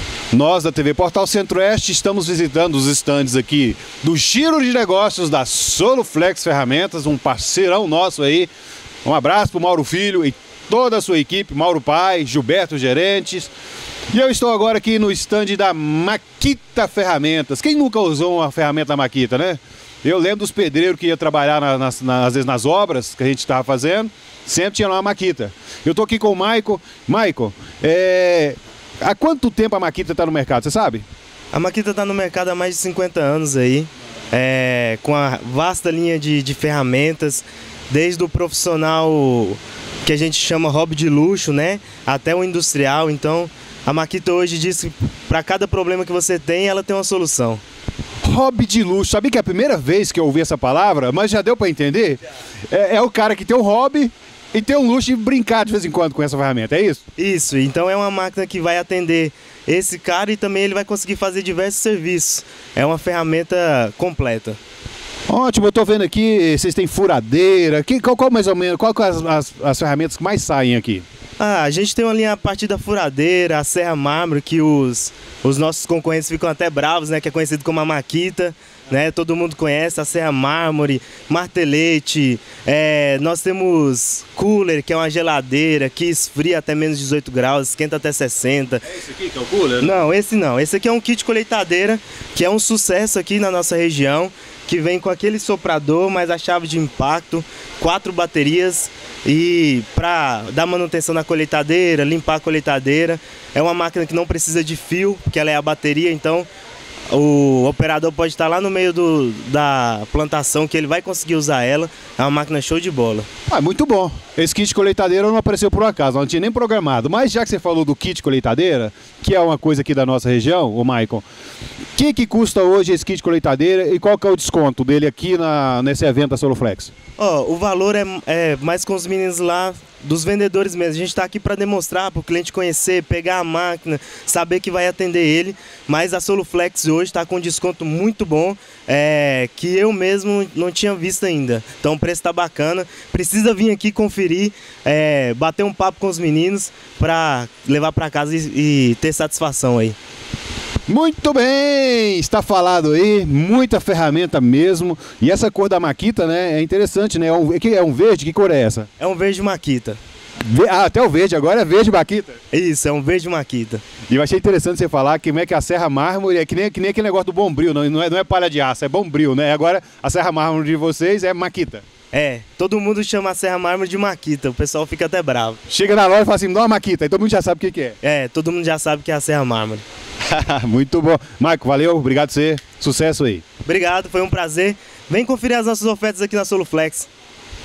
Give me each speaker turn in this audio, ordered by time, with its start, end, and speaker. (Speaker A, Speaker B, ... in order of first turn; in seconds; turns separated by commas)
Speaker A: 0.3-8.5, Speaker A: 9.0-13.5, Speaker A: 14.1-31.0, Speaker B: 31.5-47.6, Speaker A: 48.2-52.2, Speaker A: 52.7-57.0, Speaker B: 57.2-64.6, Speaker A: 65.3-71.0, Speaker B: 71.4-88.8, Speaker A: 88.8-89.9, Speaker B: 89.8-106.5, Speaker B: 107.1-113.3, Speaker A: 113.5-121.2, Speaker A: 122.0-126.9, Speaker B: 127.2-149.9, Speaker A: 150.9-158.9, Speaker B: 159.0-160.0, Speaker A: 160.4-162.4, Speaker B: 162.5-163.8, Speaker A: 164.1-171.8, Speaker B: 172.1-175.6, Speaker A: 175.7-177.9, Speaker B: 178.0-179.8, Speaker A: 180.3-183.4, Speaker B: 183.6-187.1